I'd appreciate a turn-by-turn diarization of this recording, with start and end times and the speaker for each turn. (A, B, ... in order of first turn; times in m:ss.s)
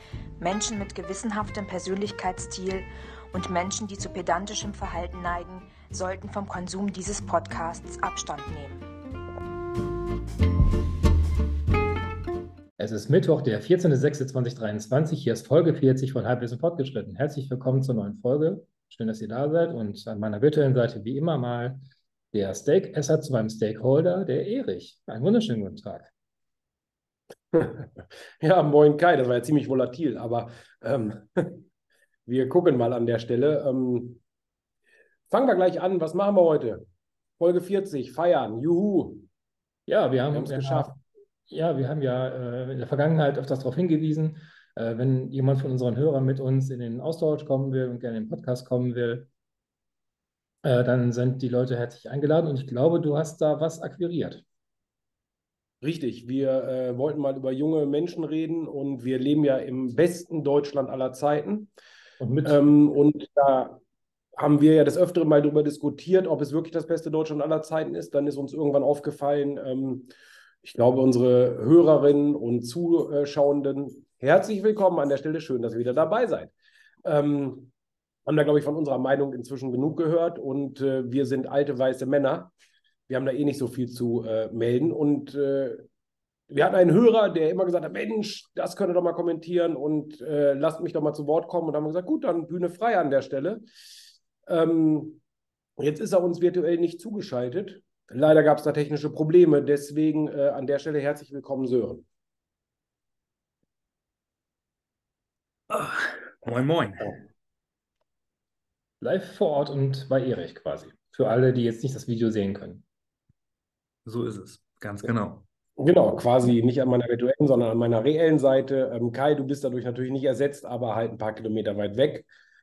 0:00.4-0:08.9 A
0:12.8-0:26.1 B
0:27.5-0:27.9 C
0:28.4-0:31.6 C
0:32.3-0:34.2 C
0:35.3-0:36.8 C
0:37.4-0:39.3 C
0:39.9-0:49.3 B
0:40.3-0:40.9 C
0:50.6-0:54.4 B
0:55.8-1:01.7 C
1:02.2-1:02.7 B
1:02.4-1:03.8 C
1:04.4-1:10.1 C
1:10.6-1:16.5 C
1:17.0-1:17.7 C
1:18.2-1:22.5 C
1:23.1-1:25.8 C
1:26.5-1:33.6 C
1:34.4-1:35.2 C
1:35.8-1:42.0 C
1:45.7-1:47.2 D
1:49.0-1:52.8 B
1:54.0-1:55.4 D
1:55.8-2:02.3 C